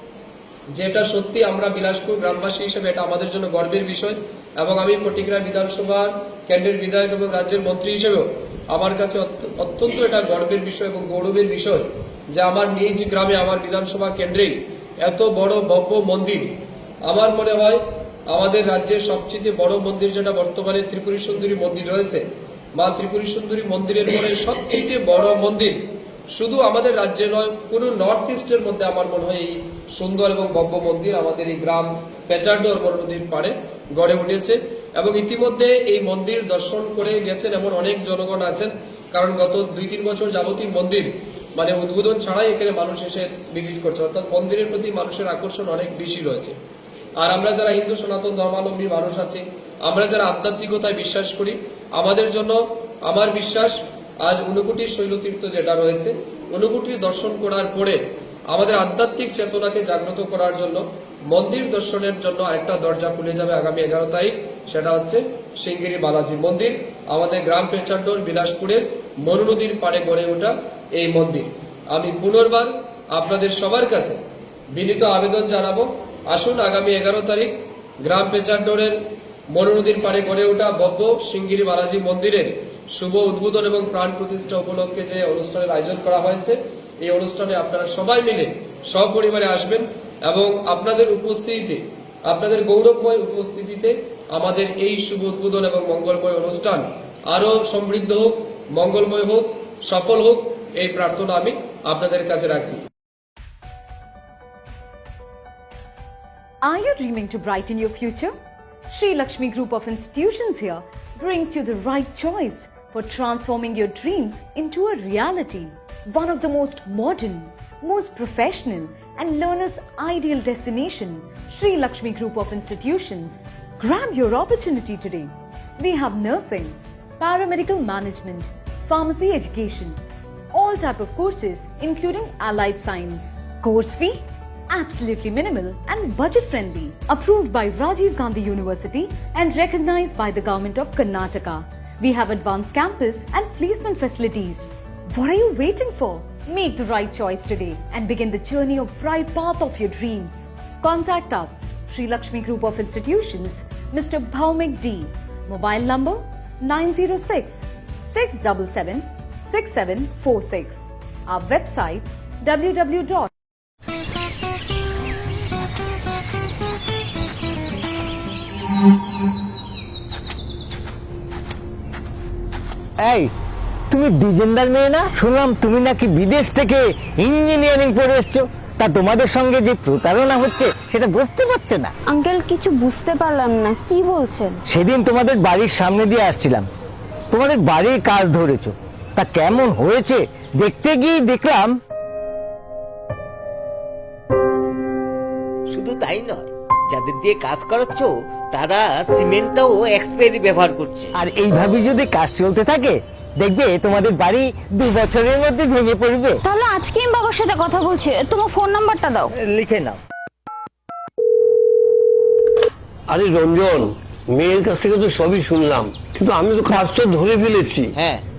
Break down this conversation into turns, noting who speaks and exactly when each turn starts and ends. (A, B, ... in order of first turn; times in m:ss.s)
0:00.8-0:16.5 A
0:17.0-0:22.2 A
0:22.8-0:25.8 A
0:26.3-0:46.6 A
0:47.2-1:14.2 A
1:14.7-1:19.0 A
1:19.5-1:42.8 A
1:46.6-1:48.3 B
1:48.9-2:10.0 B
2:10.5-2:43.3 B
2:53.0-2:53.3 C
2:53.9-3:01.9 C
3:02.1-3:04.6 D
3:04.7-3:06.7 C
3:07.3-3:11.8 C
3:15.7-3:21.1 E
3:21.2-3:26.4 C
3:26.4-3:29.3 D
3:29.4-3:30.0 E
3:33.1-3:38.0 F
3:38.0-3:38.2 E